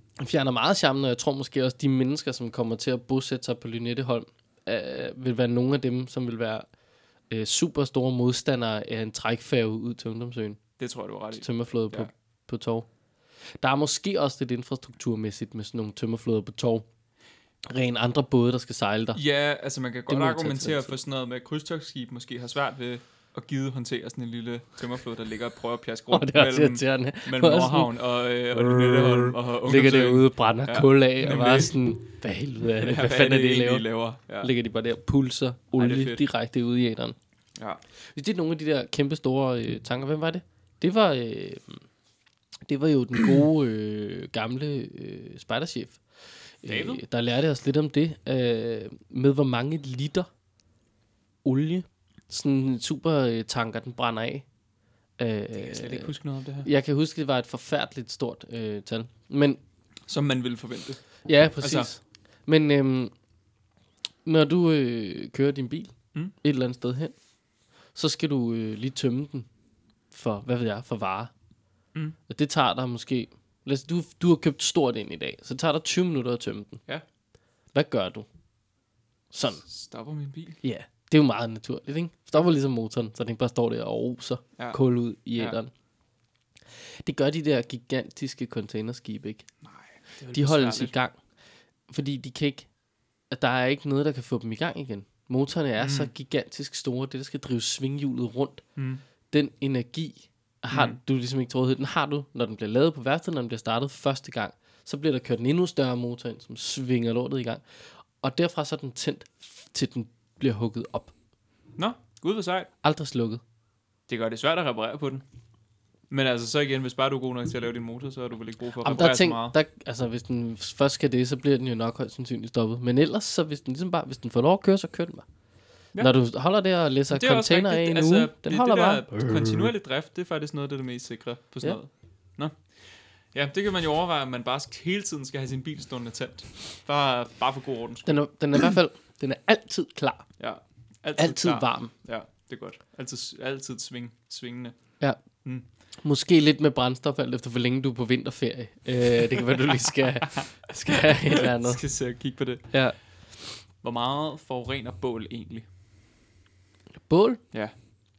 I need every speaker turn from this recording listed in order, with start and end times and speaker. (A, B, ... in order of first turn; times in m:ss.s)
0:00.2-0:06.7 A
0:07.3-0:10.6 A
0:10.8-0:12.1 B
0:11.4-0:12.9 A
0:13.6-0:16.8 A
0:17.7-0:19.2 A
0:19.1-0:31.8 B
0:20.1-0:20.9 A
0:26.1-0:27.9 A
0:28.5-0:33.8 A
0:32.8-0:34.5 B
0:34.4-0:37.2 A
0:35.8-0:36.2 B
0:38.1-0:41.8 A
0:42.6-0:50.3 A
0:46.6-0:47.0 B
0:51.4-0:54.4 A
0:55.2-0:59.6 A
0:55.5-0:56.7 B
1:00.1-1:01.9 B
1:01.2-1:03.1 A
1:04.2-1:07.1 A
1:07.9-1:09.5 A
1:10.1-1:11.3 A
1:12.3-1:16.8 A
1:17.7-1:18.3 A
1:19.3-1:19.6 A
1:19.7-1:20.6 B
1:20.6-1:25.7 A
1:25.3-1:25.6 B
1:27.0-1:29.4 A
1:29.6-1:30.9 B
1:30.3-1:31.2 A
1:31.9-1:32.7 A
1:33.3-1:38.6 A
1:35.8-1:36.1 B
1:38.8-1:39.0 B
1:39.3-1:51.1 A
1:40.7-1:41.0 B
1:51.8-1:52.7 B
1:52.8-1:53.4 A
1:54.1-1:55.2 B
1:56.1-1:59.6 B
1:58.8-2:05.2 A
2:05.9-2:09.7 A
2:07.1-2:12.6 B
2:13.3-2:18.1 B
2:18.0-2:20.3 A
2:20.4-2:24.8 B
2:21.2-2:21.9 A
2:26.0-2:31.8 A
2:30.3-2:32.8 B
2:32.7-2:33.0 A
2:33.8-2:35.6 B
2:37.0-2:37.4 A